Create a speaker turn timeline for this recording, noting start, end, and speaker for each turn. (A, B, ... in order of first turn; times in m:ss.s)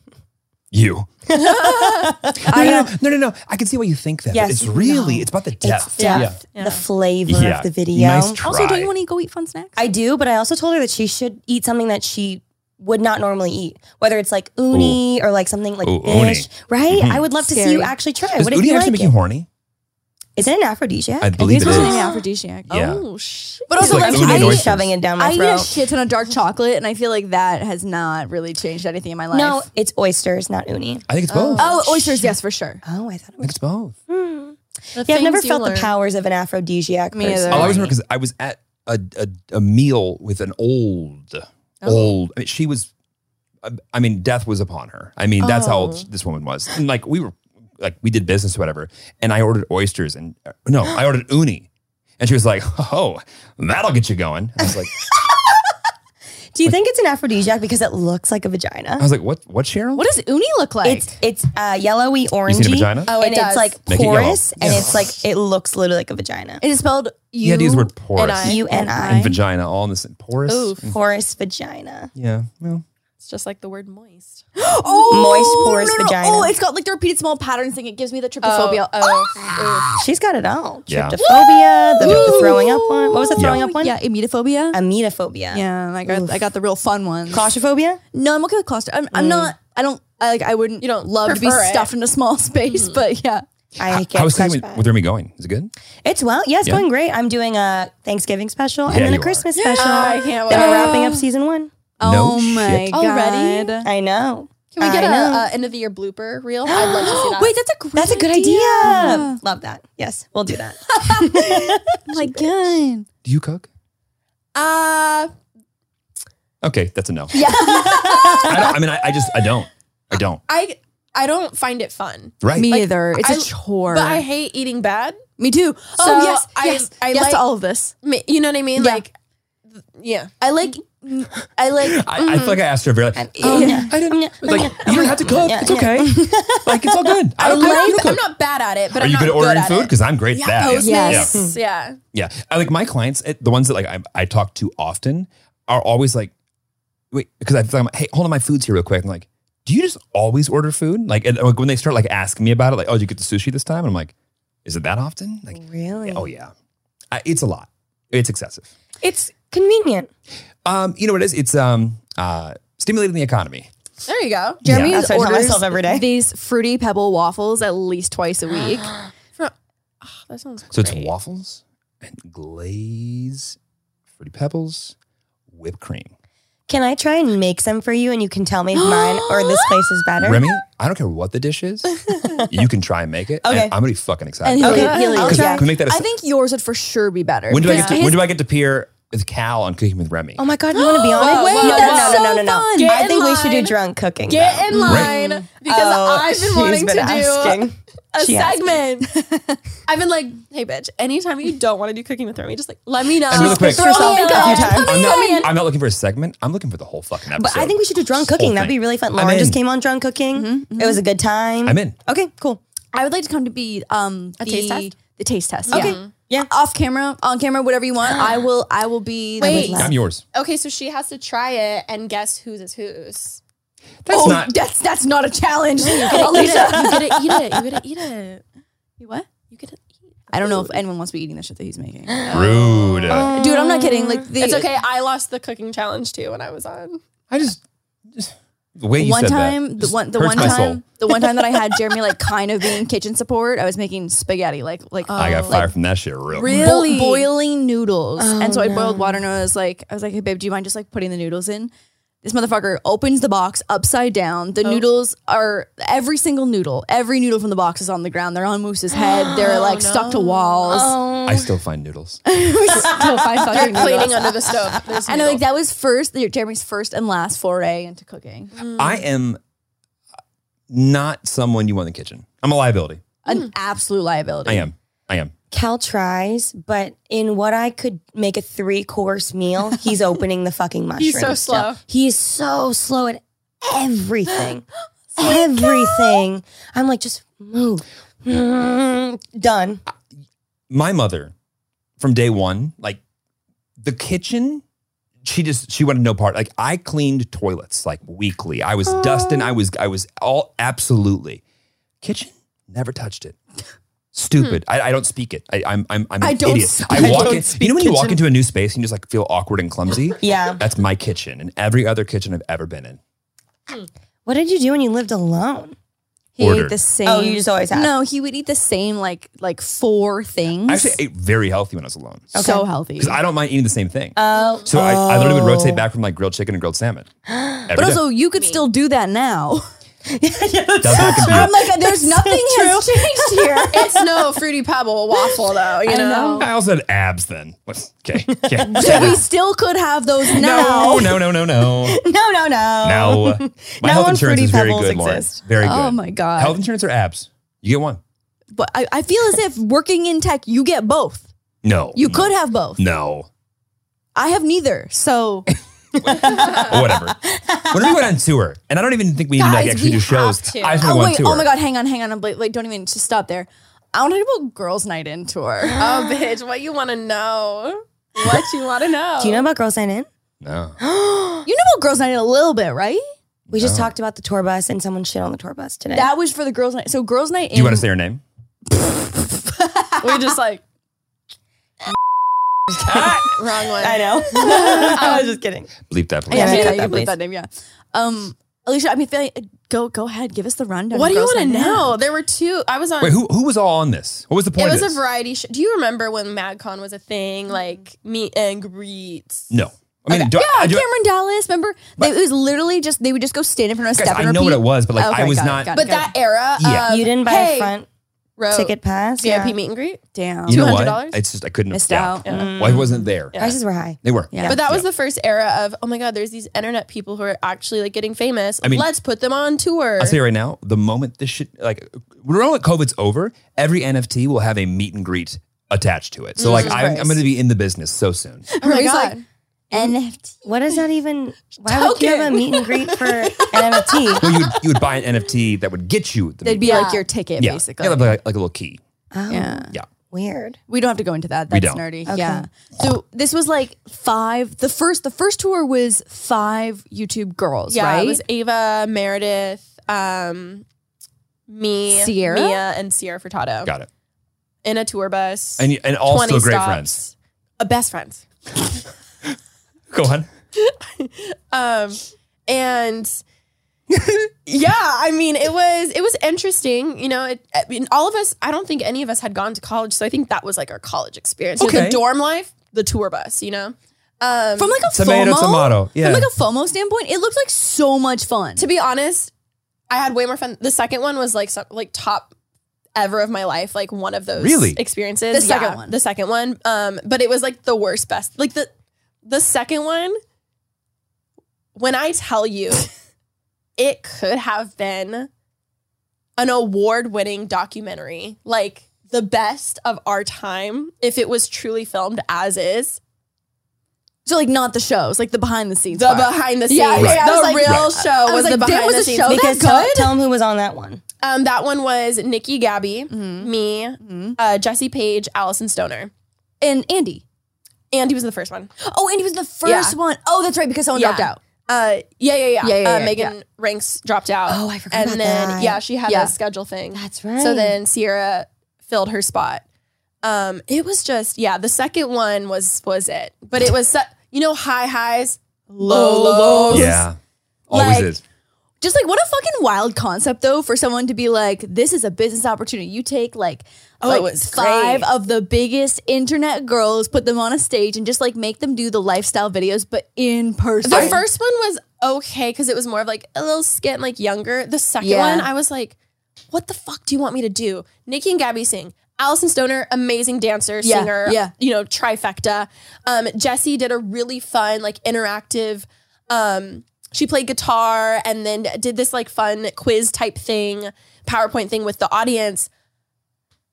0:00.7-0:01.1 A
0:01.3-0:02.9 B
0:01.4-0:02.1 C
0:02.4-0:06.4 A
0:02.5-0:02.9 D
0:04.3-0:08.4 B
0:06.0-0:06.8 C
0:07.3-0:08.9 A
0:08.4-0:09.8 D
0:09.8-0:19.1 B
0:14.7-0:15.0 A
0:15.8-0:17.3 A
0:17.4-0:17.9 D
0:18.4-0:19.5 A
0:20.4-0:22.0 B
0:21.2-0:22.0 A
0:21.4-0:22.9 D
0:21.7-0:22.0 C
0:22.7-0:23.1 A
0:22.7-0:24.3 C
0:23.7-0:29.6 D
0:23.8-0:24.9 A
0:23.8-0:25.7 B
0:29.3-0:31.1 B
0:31.1-0:31.8 A
0:31.3-0:31.8 C
0:31.6-0:32.8 D
0:32.8-0:33.6 B
0:33.4-0:34.0 A
0:34.1-0:37.9 B
0:35.0-0:35.9 C
0:37.1-0:37.9 D
0:37.5-0:42.9 A
0:43.6-0:51.7 A
0:45.4-0:46.1 C
0:52.2-0:54.9 A
0:56.5-0:59.1 B
0:59.0-1:00.1 A
1:00.0-1:01.2 D
1:00.8-1:06.6 B
1:02.5-1:03.1 A
1:03.1-1:03.8 C
1:03.9-1:05.2 A
1:06.6-1:07.9 D
1:07.4-1:11.0 A
1:08.2-1:08.6 C
1:08.4-1:09.3 B
1:08.6-1:09.4 D
1:10.5-1:10.9 C
1:10.9-1:12.1 B
1:12.2-1:12.8 A
1:13.2-1:14.5 C
1:14.6-1:19.5 D
1:15.1-1:16.5 B
1:18.4-1:19.9 C
1:20.0-1:24.0 B
1:20.9-1:21.2 A
1:21.2-1:21.9 C
1:21.3-1:24.8 D
1:22.0-1:22.4 A
1:23.4-1:23.6 A
1:24.7-1:26.4 B
1:25.5-1:27.5 D
1:27.3-1:28.0 B
1:28.1-1:33.4 D
1:30.8-1:31.9 C
1:32.7-1:33.0 C
1:33.8-1:34.9 B
1:33.8-1:35.7 A
1:36.0-1:41.7 B
1:38.9-1:39.5 A
1:39.6-1:41.2 D
1:39.7-1:41.1 C
1:42.0-1:43.9 D
1:42.0-1:42.9 A
1:42.9-1:43.8 C
1:43.8-1:45.5 B
1:44.7-1:47.6 C
1:46.7-1:47.3 B
1:47.1-1:49.4 D
1:48.0-1:52.4 B
1:50.9-1:53.1 D
1:53.2-1:53.7 A
1:54.6-1:55.3 C
1:56.6-1:57.5 A
1:57.3-1:58.7 D
1:57.6-1:58.8 B
1:58.4-2:00.4 A
2:00.5-2:05.2 C
2:02.4-2:02.7 A
2:02.5-2:04.2 D
2:05.4-2:07.9 D
2:06.0-2:07.4 C
2:08.0-2:09.1 C
2:08.8-2:09.0 D
2:10.0-2:10.3 C
2:10.4-2:12.1 D
2:11.8-2:18.2 A
2:12.2-2:12.6 C
2:13.2-2:17.2 B
2:13.4-2:13.9 D
2:14.4-2:15.4 C
2:17.4-2:22.0 C
2:17.4-2:18.0 D
2:19.0-2:21.5 A
2:20.4-2:21.4 D
2:22.1-2:26.3 A
2:27.1-2:34.1 A
2:34.6-2:36.5 A
2:35.5-2:36.3 B
2:37.1-2:38.7 A
2:39.0-2:40.1 B
2:40.6-2:43.7 A
2:44.1-2:44.6 C
2:44.6-2:45.0 A
2:44.7-2:46.1 B
2:44.7-2:48.9 D
2:49.4-2:51.1 C
2:50.7-2:53.6 A
2:54.2-2:55.0 A
2:55.5-2:56.1 A
2:56.7-3:00.5 B
2:58.7-3:00.0 D
3:00.2-3:06.1 A
3:03.4-3:03.8 B
3:04.4-3:08.2 D
3:04.6-3:05.7 B
3:04.7-3:05.4 C
3:07.5-3:10.4 A
3:07.7-3:08.0 C
3:07.7-3:08.0 B
3:10.4-3:14.7 B
3:10.8-3:13.0 D
3:11.1-3:19.1 C
3:14.7-3:15.4 D
3:14.9-3:15.1 A
3:15.6-3:18.7 B
3:19.1-3:19.6 D
3:19.9-3:25.6 C
3:23.3-3:24.2 A
3:23.4-3:25.2 B
3:23.4-3:25.2 D
3:24.7-3:29.6 A
3:27.3-3:32.6 B
3:30.4-3:31.0 D
3:31.6-3:32.0 A
3:32.9-3:39.9 D
3:34.4-3:34.9 C
3:35.7-3:36.1 C
3:35.7-3:36.5 B
3:38.1-3:38.4 B
3:39.4-3:39.9 B
3:39.4-3:43.4 C
3:39.8-3:40.2 A
3:44.0-3:44.5 A
3:44.1-3:47.0 D
3:45.8-3:47.8 B
3:46.1-3:48.4 C
3:49.0-3:49.3 D
3:49.5-3:50.8 C
3:50.3-3:52.2 D
3:52.2-3:57.0 C
3:52.3-3:53.3 A
3:53.1-3:54.7 D
3:57.3-3:57.6 A
3:58.2-4:00.8 A
3:59.0-4:05.7 D
4:00.3-4:00.7 B
4:05.0-4:05.7 C
4:05.2-4:06.8 A
4:06.3-4:07.3 C
4:06.3-4:11.7 D
4:08.2-4:09.2 B
4:12.2-4:20.9 D
4:19.3-4:20.9 C
4:20.7-4:21.6 B
4:21.2-4:22.2 A
4:22.3-4:24.5 D
4:22.7-4:24.8 B
4:23.5-4:25.4 C
4:25.0-4:28.6 D
4:28.6-4:29.0 C
4:28.8-4:29.4 A
4:30.7-4:33.0 A
4:33.2-4:34.7 D
4:34.5-4:35.3 A
4:35.5-4:49.8 B
4:41.0-4:41.8 C
4:50.7-4:51.3 A
4:52.0-4:53.0 A
4:53.8-4:54.6 A
4:55.2-5:01.4 A
4:58.9-4:59.6 B
5:02.0-5:03.4 A
5:04.1-5:13.0 A
5:06.2-5:07.4 D
5:06.9-5:08.2 B
5:10.2-5:10.6 B
5:14.3-5:15.8 B
5:16.4-5:21.0 D
5:16.4-5:16.8 A
5:17.0-5:17.9 B
5:20.7-5:22.3 A
5:22.3-5:22.7 B
5:22.4-5:23.2 D
5:23.0-5:24.2 A
5:24.2-5:25.9 B
5:24.4-5:24.7 C
5:24.7-5:27.1 A
5:27.3-5:27.7 B
5:27.7-5:28.0 A
5:27.7-5:29.7 D
5:28.4-5:28.6 C
5:30.1-5:34.3 B
5:30.8-5:31.6 A
5:31.0-5:33.8 D
5:33.7-5:36.5 C
5:35.2-5:35.4 B
5:35.9-5:36.5 D
5:36.4-5:39.2 A
5:38.2-5:39.2 B
5:38.7-5:41.1 D
5:40.3-5:45.4 B
5:40.3-5:42.0 A
5:42.8-5:48.0 A
5:45.6-5:46.6 D
5:48.5-5:51.3 D
5:51.6-5:53.3 A
5:51.9-5:52.8 D
5:54.2-5:55.5 D
5:56.0-5:58.1 B
5:56.0-6:01.5 A
5:56.4-5:56.7 C
5:59.4-6:00.9 C
6:00.8-6:05.8 D
6:05.8-6:09.5 C
6:08.2-6:08.5 A
6:09.2-6:10.1 B
6:10.4-6:10.8 A
6:10.8-6:11.5 B
6:11.5-6:13.0 D
6:13.5-6:13.9 A
6:13.5-6:16.1 B
6:15.9-6:17.9 D
6:17.5-6:18.2 A
6:18.7-6:20.3 D
6:20.0-6:20.6 C
6:22.7-6:25.7 B
6:22.9-6:23.3 A
6:22.9-6:25.2 C
6:24.4-6:25.2 D
6:25.9-6:26.8 A
6:26.3-6:27.1 B
6:26.3-6:32.0 D
6:30.9-6:33.2 C
6:33.0-6:35.0 A
6:34.6-6:39.5 C
6:39.5-6:40.9 A
6:40.1-6:46.1 D
6:43.9-6:45.8 A
6:45.7-6:47.7 C
6:46.6-6:47.0 A
6:46.9-6:47.9 B
6:48.4-6:51.2 C
6:48.5-6:49.6 B
6:50.1-6:50.7 D
6:50.5-6:54.9 A
6:51.7-6:52.3 D
6:52.2-6:53.5 C
6:52.3-6:54.6 B
6:54.3-6:54.6 D
6:54.5-7:00.2 C
6:58.6-6:58.9 A
7:00.0-7:08.5 A
7:06.4-7:07.0 C
7:06.5-7:07.0 D
7:06.6-7:06.9 B
7:08.5-7:09.2 D
7:08.6-7:09.2 C
7:09.7-7:10.4 D
7:09.7-7:14.3 B
7:11.6-7:14.6 C
7:14.2-7:18.8 A
7:16.4-7:18.2 D
7:16.6-7:17.0 C
7:19.1-7:20.6 B
7:19.3-7:19.7 D
7:20.7-7:28.2 D
7:21.5-7:21.9 A
7:22.1-7:22.5 B
7:27.7-7:30.6 C
7:31.5-7:33.7 C
7:31.9-7:32.6 D
7:34.6-7:38.2 C
7:35.6-7:37.0 A
7:39.9-7:40.3 A
7:40.6-7:43.2 C
7:44.5-7:54.8 C
7:51.6-7:52.0 A
7:54.6-7:58.6 D
7:54.9-7:56.3 A
7:58.6-7:59.3 C
7:59.9-8:02.3 C
8:03.0-8:08.7 C
8:04.4-8:04.8 A
8:05.3-8:06.0 D
8:09.2-8:10.2 C
8:11.8-8:12.9 C
8:13.8-8:15.3 C
8:16.4-8:23.0 C
8:24.2-8:30.2 D
8:25.9-8:29.4 C
8:27.0-8:27.9 A
8:29.2-8:31.0 B
8:31.2-8:36.1 C
8:33.1-8:34.4 D
8:36.6-8:37.2 D
8:37.9-8:38.7 C
8:38.8-8:41.4 D
8:39.6-8:40.0 C
8:40.9-8:49.6 C
8:42.6-8:43.4 D
8:44.5-8:45.8 B
8:46.1-8:46.3 D
8:46.9-8:47.8 B
8:50.2-8:57.0 C
8:55.7-8:57.0 D
8:56.7-8:57.2 A
8:57.7-8:58.2 A
8:57.7-8:58.1 D
8:57.8-8:58.1 C
8:58.8-9:11.2 D
9:04.0-9:04.9 C
9:04.6-9:05.1 B
9:10.8-9:16.0 C
9:10.9-9:11.2 A
9:15.0-9:15.5 D
9:16.5-9:32.7 C
9:20.8-9:21.5 D